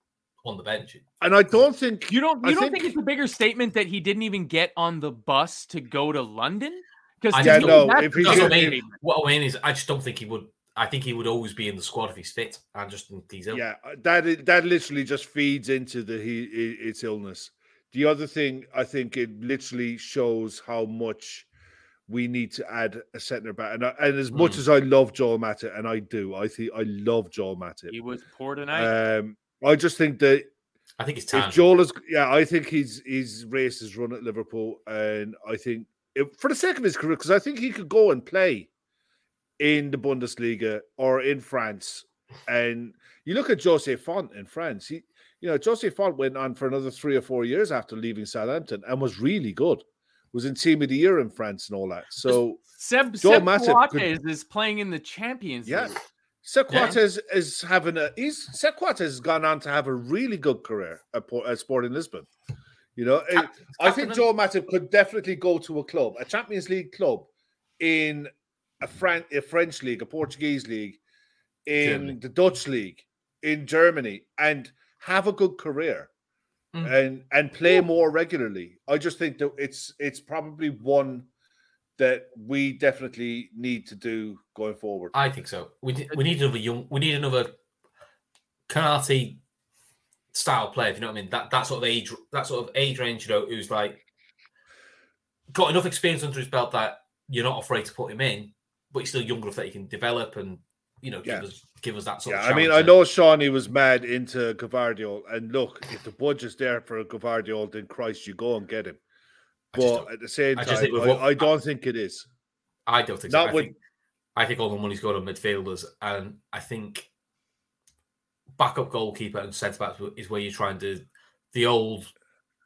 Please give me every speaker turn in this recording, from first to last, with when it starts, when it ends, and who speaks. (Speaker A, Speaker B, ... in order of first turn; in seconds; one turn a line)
Speaker A: 0.4-1.0
Speaker B: 1.2-2.9
Speaker C: 2.1-8.9
Speaker A: 7.3-13.6
Speaker B: 7.4-8.8
Speaker B: 13.5-21.5
Speaker B: 22.1-27.9
Speaker A: 24.3-24.6
Speaker C: 27.9-28.9
Speaker B: 28.7-30.5
Speaker A: 31.0-31.6
Speaker B: 31.3-38.7
Speaker B: 39.6-52.6
Speaker C: 52.3-56.0
Speaker B: 53.2-54.1
Speaker B: 55.6-62.3
Speaker A: 56.7-56.9
Speaker B: 63.0-67.3
Speaker A: 63.3-64.2
Speaker B: 67.8-71.0
Speaker B: 71.7-76.1
Speaker A: 71.8-72.2
Speaker B: 76.8-81.3
Speaker B: 82.0-85.1
Speaker A: 85.1-87.5
Speaker A: 88.7-89.4
Speaker A: 90.3-94.0
Speaker A: 95.5-103.0
Speaker B: 102.2-109.0
Speaker A: 109.7-111.5
Speaker B: 109.7-112.3
Speaker A: 112.9-113.7
Speaker B: 113.3-113.7
Speaker A: 114.3-117.1
Speaker A: 118.6-122.1